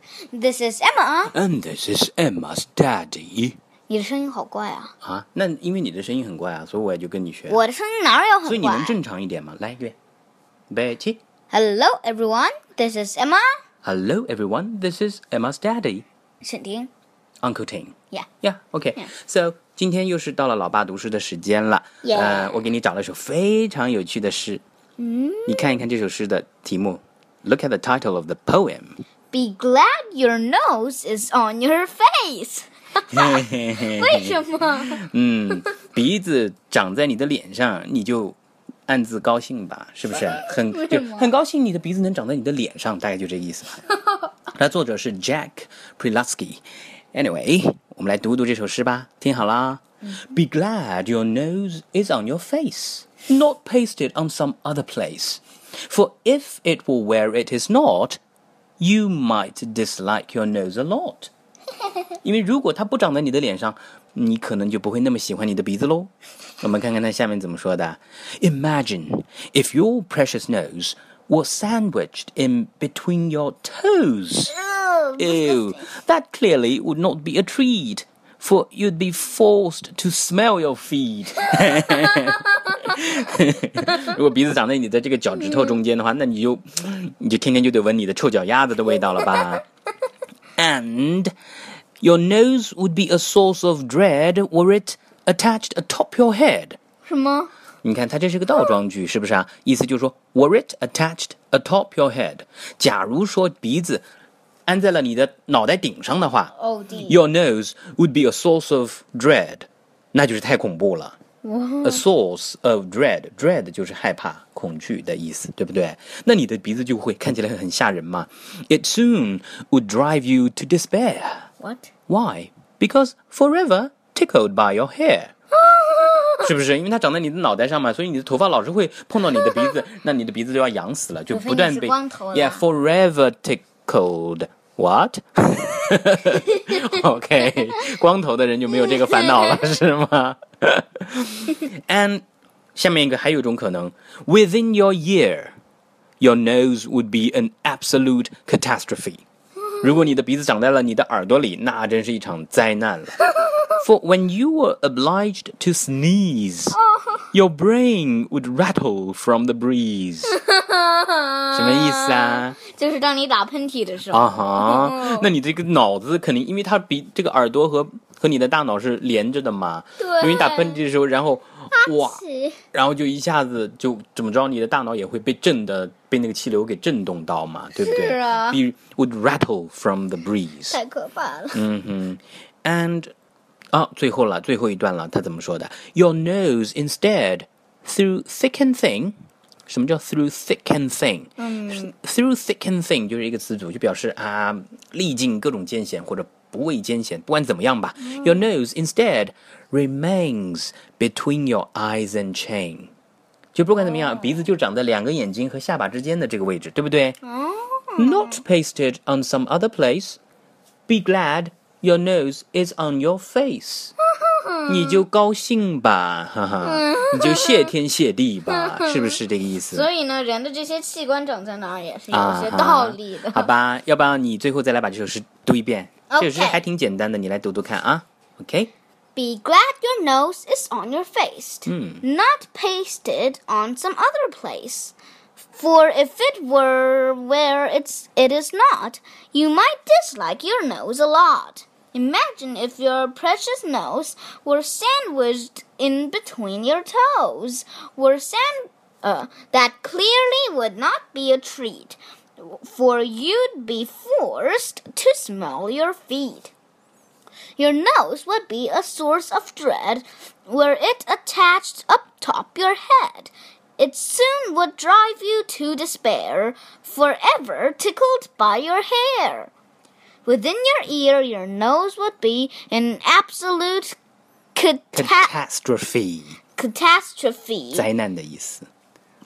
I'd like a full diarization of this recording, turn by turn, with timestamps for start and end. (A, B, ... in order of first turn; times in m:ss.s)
0:00.3-0:01.3 A
0:01.3-0:03.6 B
0:03.9-0:04.9 A
0:05.0-0:07.6 B
0:07.5-0:09.0 A
0:08.4-0:09.9 B
0:10.7-0:11.2 B
0:11.5-0:13.5 A
0:13.8-0:16.0 B
0:16.4-0:16.9 A
0:17.4-0:24.6 B
0:22.0-0:22.6 A
0:25.0-0:25.8 A
0:25.4-0:29.0 B
0:29.3-0:35.0 A
0:33.1-0:34.4 B
0:34.9-0:43.8 B
0:40.1-0:41.3 A
0:44.5-0:46.6 B
0:47.1-0:58.2 B
0:58.8-1:01.3 B
1:02.2-1:14.5 B
1:14.5-1:15.8 A
1:15.2-1:29.6 B
1:21.7-1:22.4 A
1:25.4-1:25.8 A
1:29.2-1:29.6 A
1:30.6-1:31.3 B
1:32.0-1:36.8 B
1:37.0-1:37.5 A
1:37.8-1:44.0 B
1:44.7-1:51.2 B
1:46.5-1:47.2 A
1:51.4-1:52.0 A
1:51.8-2:01.5 B
2:01.6-2:01.9 A
2:02.1-2:05.3 B
2:05.6-2:06.5 A
2:06.4-2:22.2 B
2:11.3-2:12.6 A
2:16.3-2:16.9 A
2:17.4-2:17.8 A
2:18.7-2:19.7 A
2:22.7-2:25.6 B
2:26.2-2:29.2 B
2:29.8-2:33.2 B
2:33.2-2:33.8 A
2:33.8-2:36.8 B
2:36.7-2:37.3 A
2:37.3-2:40.4 B
2:40.3-2:45.3 A
2:41.5-2:42.6 B
2:44.1-2:52.2 B
2:50.0-2:50.8 A
2:51.7-2:52.6 A
2:52.7-3:00.8 B
2:57.8-2:58.6 A
3:00.7-3:01.6 A
3:01.5-3:03.1 B
3:03.7-3:09.2 B
3:09.7-3:22.9 B
3:11.4-3:11.9 A
3:18.0-3:18.4 A
3:23.5-3:27.2 B
3:23.8-3:24.5 A
3:27.2-3:28.4 A
3:28.0-3:30.2 B
3:30.9-3:33.9 B
3:34.1-3:35.0 A
3:34.7-3:39.9 B
3:36.6-3:37.7 A
3:38.5-3:39.2 A
3:39.7-3:43.5 A
3:42.1-3:48.7 B
3:46.1-3:46.6 A
3:49.1-3:54.9 A
3:51.6-3:52.0 B
3:55.6-4:16.5 A
4:17.6-4:29.5 A
4:30.2-4:34.0 A
4:34.5-4:35.3 A
4:34.9-4:36.4 B
4:36.6-4:37.9 A
4:37.7-4:38.7 B